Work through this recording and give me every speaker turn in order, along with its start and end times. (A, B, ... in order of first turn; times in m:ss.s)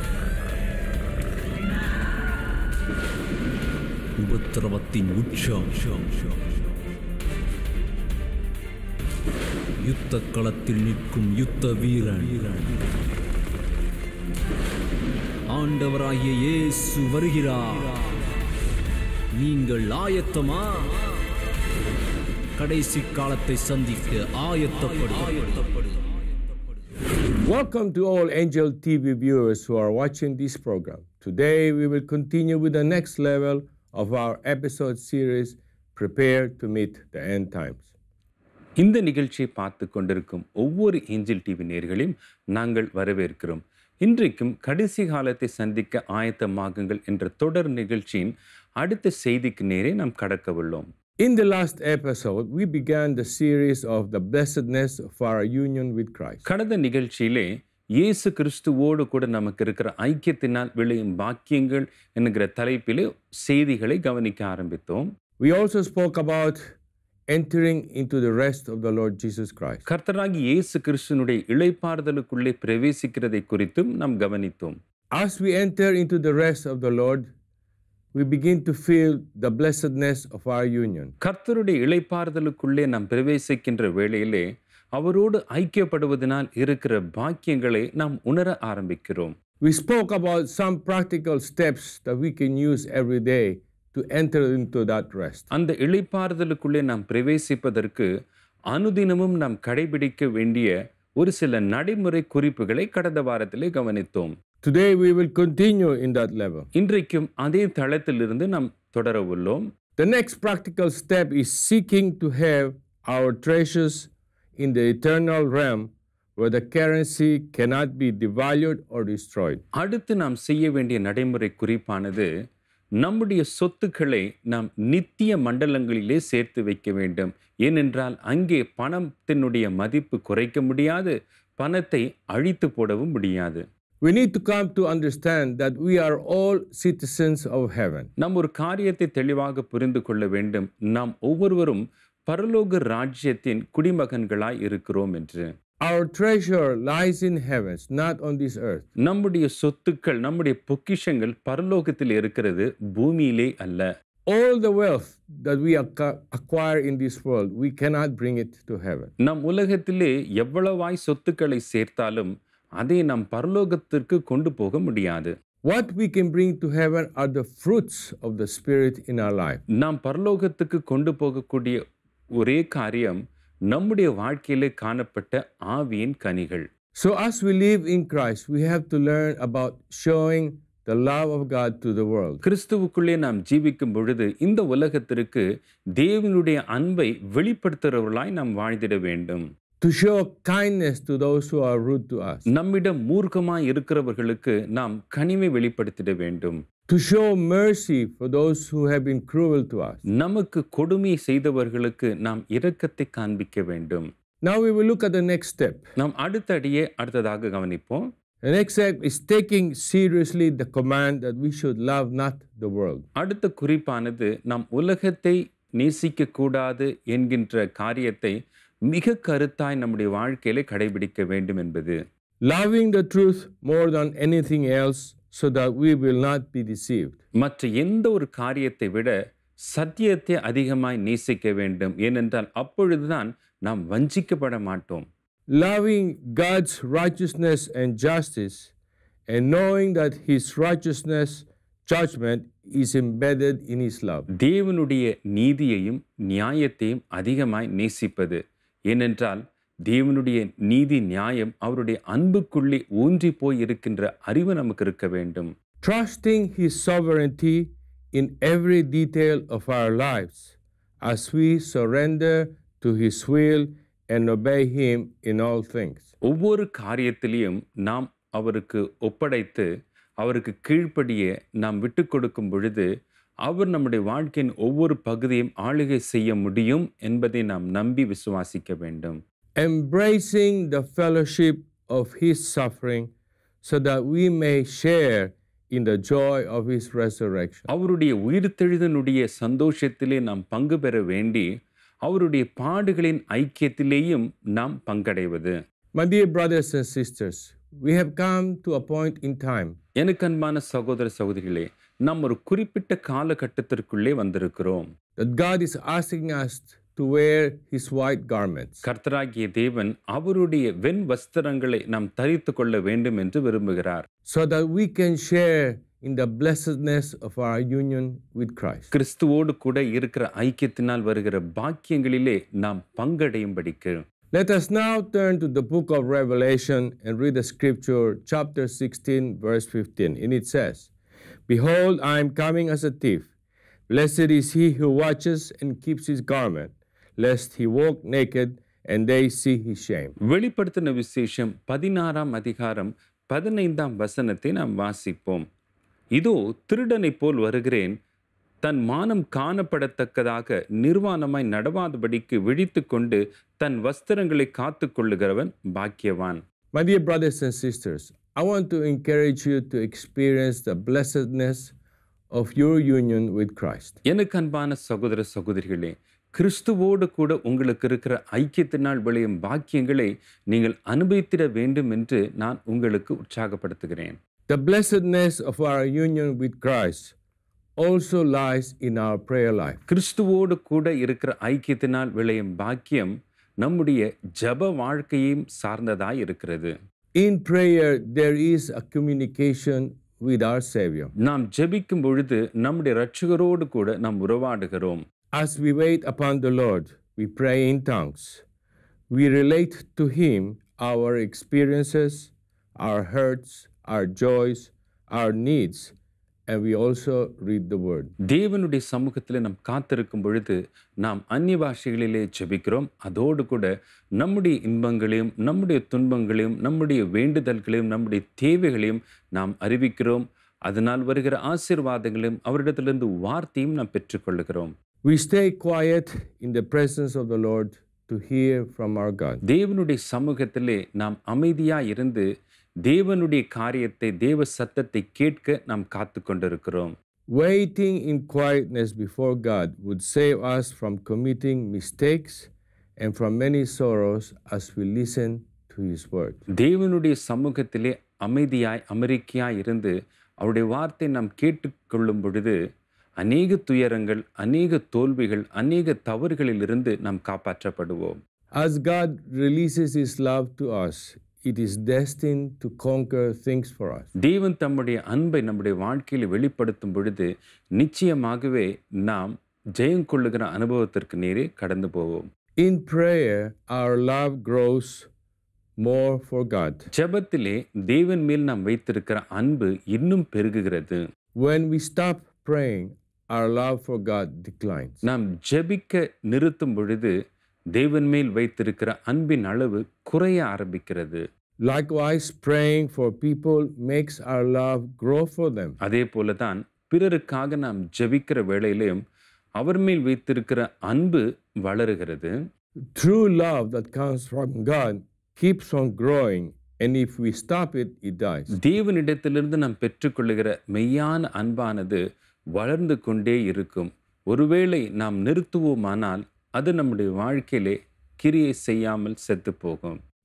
0:04.2-0:06.4 A
0:09.8-0:12.9 A
0:15.5-0:18.0 A
0:19.3-0:20.9 A
0:22.6-0:26.0 A
0:27.4-0:37.9 B
0:38.8-0:50.9 C
0:51.2-0:56.4 B
0:56.4-1:05.1 C
1:05.4-1:06.6 B
1:07.3-1:09.8 B
1:09.9-1:14.8 C
1:15.1-1:17.3 B
1:18.1-1:21.1 B
1:21.2-1:29.3 C
1:29.6-1:35.5 B
1:35.5-1:38.1 C
1:38.7-1:44.3 C
1:44.6-1:46.7 B
1:46.8-1:49.6 C
1:50.0-1:59.6 B
1:59.7-2:02.3 C
2:03.0-2:13.6 C
2:14.0-2:18.1 B
2:18.2-2:25.5 C
2:25.8-2:28.9 B
2:29.0-2:33.9 C
2:34.2-2:39.1 B
2:39.2-2:45.3 C
2:45.6-2:49.6 B
2:49.7-2:51.8 C
2:52.4-2:56.7 C
2:56.9-3:02.4 B
3:02.4-3:05.4 C
3:06.0-3:09.4 C
3:09.8-3:12.4 B
3:12.4-3:16.6 C
3:16.9-3:20.0 B
3:20.1-3:24.1 C
3:24.4-3:25.8 B
3:26.0-3:28.1 C
3:28.4-3:33.0 B
3:33.2-3:38.4 C
3:38.9-3:42.0 C
3:42.4-3:47.2 B
3:47.4-3:49.1 C
3:49.7-3:55.0 C
3:55.5-3:58.7 B
3:59.3-4:04.3 B
4:04.4-4:15.5 C
4:15.8-4:26.1 B
4:26.2-4:29.7 C
4:30.2-4:32.9 C
4:33.4-4:39.2 C
4:39.6-4:43.1 B
4:43.6-4:47.7 B
4:47.7-4:51.5 C
4:52.0-4:55.6 C
4:55.9-4:59.8 B
5:00.0-5:04.9 C
5:05.2-5:08.8 B
5:08.8-5:14.1 C
5:14.3-5:18.9 B
5:18.9-5:24.0 C
5:24.3-5:30.9 B
5:31.5-5:33.3 B
5:33.9-5:40.1 B
5:40.2-5:45.4 C
5:46.1-5:48.0 C
5:48.6-5:56.4 C
5:56.7-6:01.7 B
6:02.3-6:04.0 B
6:04.0-6:14.2 C
6:14.5-6:17.1 B
6:17.8-6:19.8 B
6:19.9-6:26.7 C
6:27.1-6:31.1 B
6:31.2-6:35.0 C
6:35.3-6:38.4 B
6:39.1-6:45.9 B
6:46.5-6:48.1 B
6:48.2-7:04.7 C
7:05.0-7:09.4 B
7:09.5-7:12.2 C
7:12.8-7:16.9 C
7:17.3-7:26.4 B
7:26.6-7:32.6 C
7:33.2-7:38.2 C
7:38.6-7:44.1 B
7:44.2-7:52.3 C
7:52.6-7:55.1 B
7:55.8-7:56.8 B
7:56.9-8:01.0 C
8:01.4-8:05.0 B
8:05.0-8:07.1 C
8:07.7-8:11.2 C
8:11.6-8:15.8 B
8:15.8-8:19.0 C
8:19.6-8:22.3 C
8:22.9-8:28.5 B
8:28.5-8:32.0 C
8:32.5-8:40.0 C